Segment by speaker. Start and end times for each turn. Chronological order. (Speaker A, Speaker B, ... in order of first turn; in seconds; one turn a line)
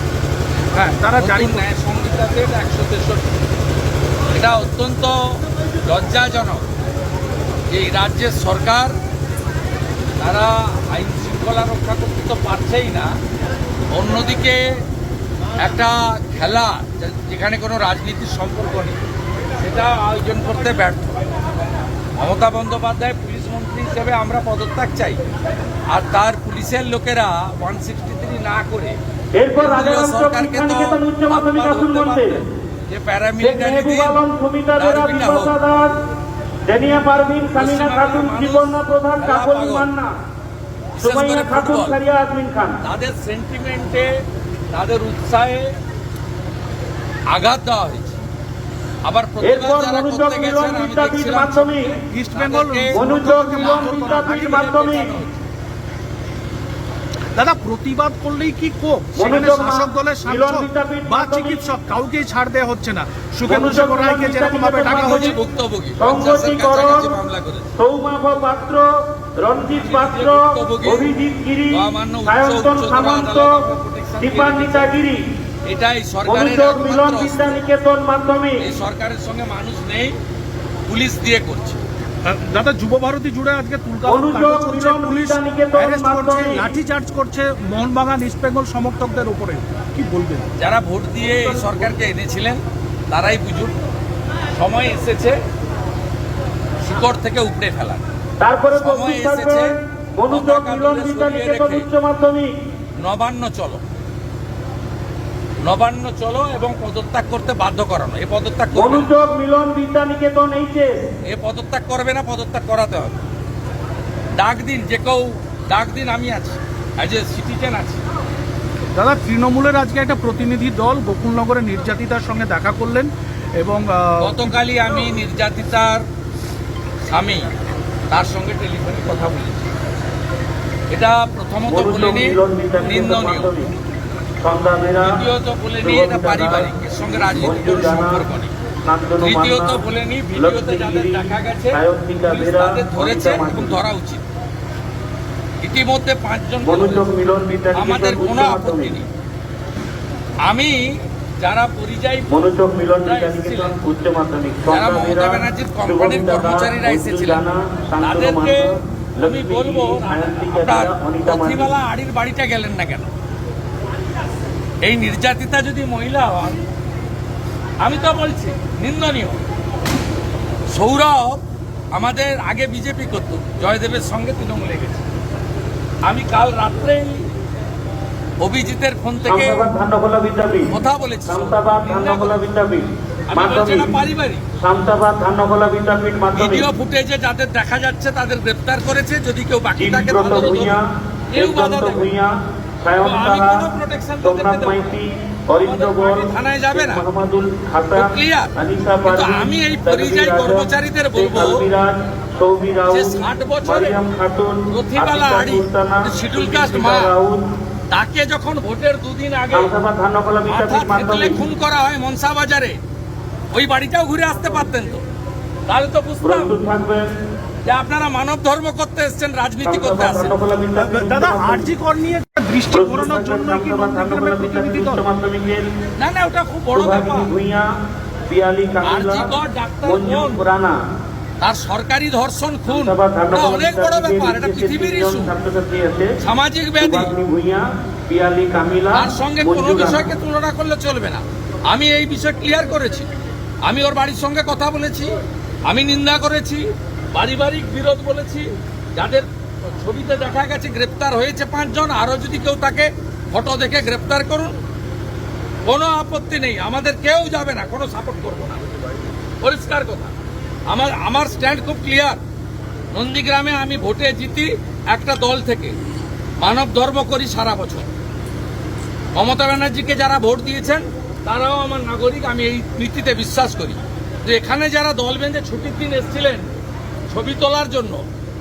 Speaker A: 0.7-1.7
Speaker B: 1.2-3.2
Speaker B: 4.3-5.2
Speaker B: 5.8-6.7
Speaker B: 7.7-9.0
Speaker B: 10.2-13.1
Speaker B: 13.9-14.6
Speaker B: 15.6-19.0
Speaker B: 19.6-21.2
Speaker B: 22.2-25.2
Speaker B: 25.9-29.0
Speaker C: 29.4-32.4
Speaker B: 29.6-34.2
Speaker C: 33.4-36.0
Speaker B: 34.8-35.6
Speaker C: 36.7-40.1
Speaker B: 37.6-39.9
Speaker B: 41.0-42.0
Speaker C: 41.0-42.8
Speaker B: 42.8-44.1
Speaker B: 44.7-45.8
Speaker B: 47.3-48.2
Speaker B: 49.0-55.4
Speaker C: 49.4-51.9
Speaker A: 52.1-54.9
Speaker C: 52.9-55.2
Speaker A: 57.4-65.4
Speaker C: 59.2-61.7
Speaker C: 63.5-65.4
Speaker B: 64.8-67.8
Speaker C: 66.0-67.1
Speaker C: 67.8-68.8
Speaker C: 69.4-73.7
Speaker B: 69.8-71.1
Speaker B: 71.7-74.9
Speaker C: 74.2-75.2
Speaker B: 75.7-77.6
Speaker C: 76.2-78.7
Speaker B: 78.6-80.2
Speaker B: 80.9-81.8
Speaker A: 82.2-90.5
Speaker C: 84.1-86.7
Speaker B: 90.6-93.8
Speaker C: 91.2-91.7
Speaker B: 94.5-95.4
Speaker B: 96.8-98.0
Speaker C: 98.4-102.5
Speaker B: 98.7-99.7
Speaker B: 100.3-101.9
Speaker B: 103.0-103.8
Speaker B: 105.6-109.2
Speaker C: 108.7-111.0
Speaker B: 111.3-113.2
Speaker B: 114.4-118.0
Speaker A: 119.0-124.4
Speaker B: 124.2-126.0
Speaker B: 127.0-127.5
Speaker B: 128.1-129.7
Speaker B: 130.9-133.5
Speaker C: 131.7-133.7
Speaker C: 134.4-135.2
Speaker B: 135.0-138.5
Speaker C: 135.8-136.7
Speaker C: 137.3-138.2
Speaker C: 138.8-139.8
Speaker B: 139.2-144.2
Speaker C: 140.3-143.8
Speaker B: 145.6-147.1
Speaker C: 146.6-148.9
Speaker B: 147.7-149.1
Speaker B: 150.4-152.3
Speaker C: 152.3-161.8
Speaker B: 153.0-153.8
Speaker B: 154.7-157.4
Speaker B: 158.0-158.7
Speaker B: 159.2-163.1
Speaker B: 164.8-166.6
Speaker B: 167.8-169.4
Speaker B: 170.7-171.4
Speaker B: 171.9-175.1
Speaker B: 176.1-177.3
Speaker B: 178.4-179.7
Speaker C: 179.3-180.7
Speaker B: 180.7-182.4
Speaker C: 181.3-184.0
Speaker B: 183.3-184.5
Speaker C: 184.6-186.7
Speaker B: 186.3-190.8
Speaker C: 189.8-193.7
Speaker B: 191.3-192.1
Speaker B: 193.0-195.0
Speaker C: 194.2-207.4
Speaker B: 195.6-197.0
Speaker B: 197.9-198.5
Speaker B: 199.1-201.6
Speaker B: 202.9-204.0
Speaker B: 204.7-207.1
Speaker B: 207.9-209.7
Speaker C: 209.5-211.4
Speaker B: 210.5-212.8
Speaker B: 213.5-215.0
Speaker B: 215.7-216.6
Speaker C: 216.2-217.1
Speaker B: 217.7-220.4
Speaker C: 219.6-221.7
Speaker A: 220.8-225.0
Speaker C: 222.7-225.7
Speaker B: 226.0-227.3
Speaker C: 226.7-227.7
Speaker C: 228.3-230.8
Speaker B: 228.8-230.4
Speaker B: 231.4-235.3
Speaker C: 232.7-236.2
Speaker B: 236.2-237.1
Speaker C: 236.8-240.1
Speaker B: 238.9-243.1
Speaker B: 243.6-245.2
Speaker B: 245.7-254.6
Speaker B: 255.7-258.8
Speaker B: 259.4-260.1
Speaker B: 260.7-262.2
Speaker B: 262.9-265.8
Speaker B: 266.4-267.9
Speaker B: 269.1-276.5
Speaker B: 277.1-278.0